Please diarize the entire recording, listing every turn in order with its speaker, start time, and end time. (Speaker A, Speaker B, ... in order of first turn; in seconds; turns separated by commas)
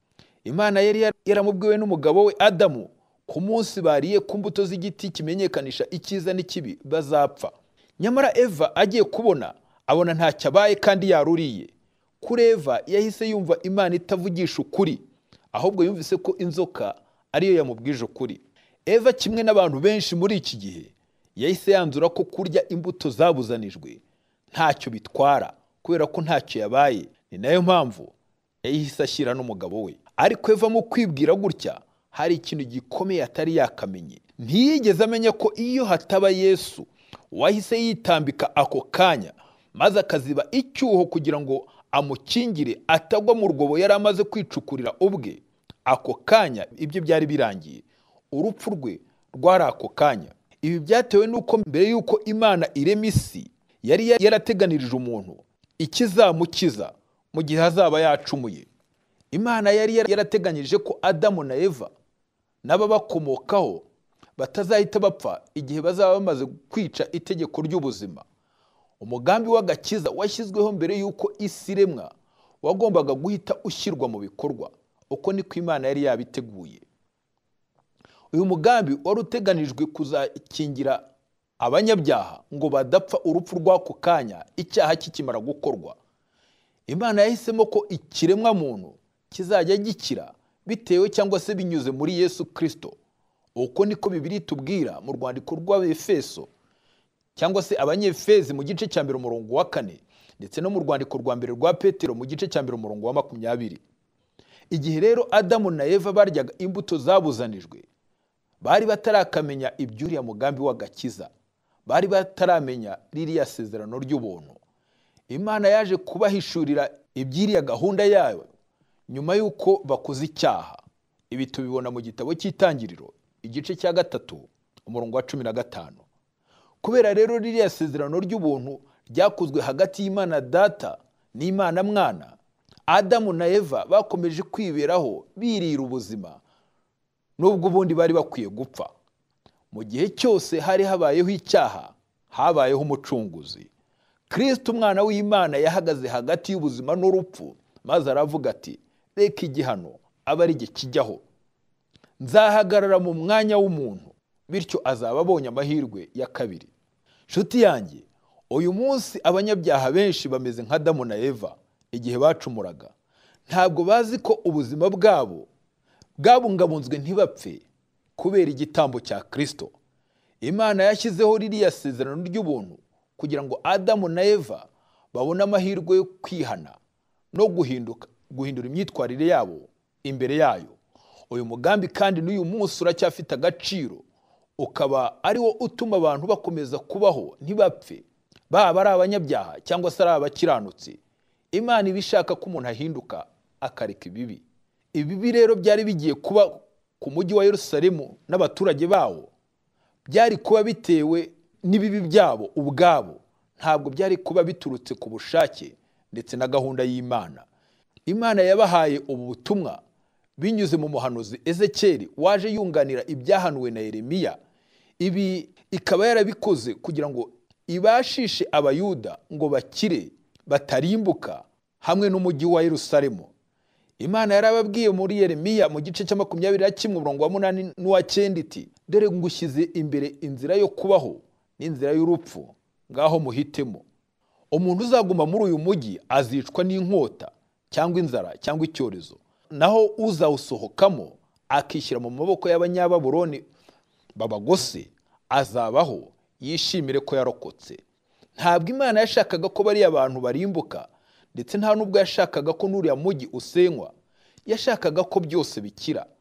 Speaker A: 0.4-58.7, Speaker A: 59.3-61.9, Speaker A: 62.6-68.2, Speaker A: 69.0-76.8, Speaker A: 78.3-81.0, Speaker A: 81.6-86.0, Speaker A: 86.9-93.0, Speaker A: 93.5-96.5, Speaker A: 97.3-103.8, Speaker A: 104.7-107.8, Speaker A: 108.6-111.3, Speaker A: 111.8-114.6, Speaker A: 115.3-118.5, Speaker A: 119.1-126.0, Speaker A: 126.8-132.3, Speaker A: 132.9-136.4, Speaker A: 137.4-138.9, Speaker A: 139.7-143.7, Speaker A: 144.3-151.2, Speaker A: 152.2-156.7, Speaker A: 157.3-162.9, Speaker A: 163.5-165.5, Speaker A: 166.2-167.6, Speaker A: 168.2-169.7, Speaker A: 170.4-176.8, Speaker A: 177.3-180.8, Speaker A: 181.3-184.0, Speaker A: 184.6-191.0, Speaker A: 191.5-199.3, Speaker A: 200.1-207.5, Speaker A: 208.1-209.8, Speaker A: 210.4-214.4, Speaker A: 215.0-223.3, Speaker A: 224.0-233.8, Speaker A: 234.5-243.4, Speaker A: 244.2-247.8, Speaker A: 248.4-253.9, Speaker A: 254.4-256.1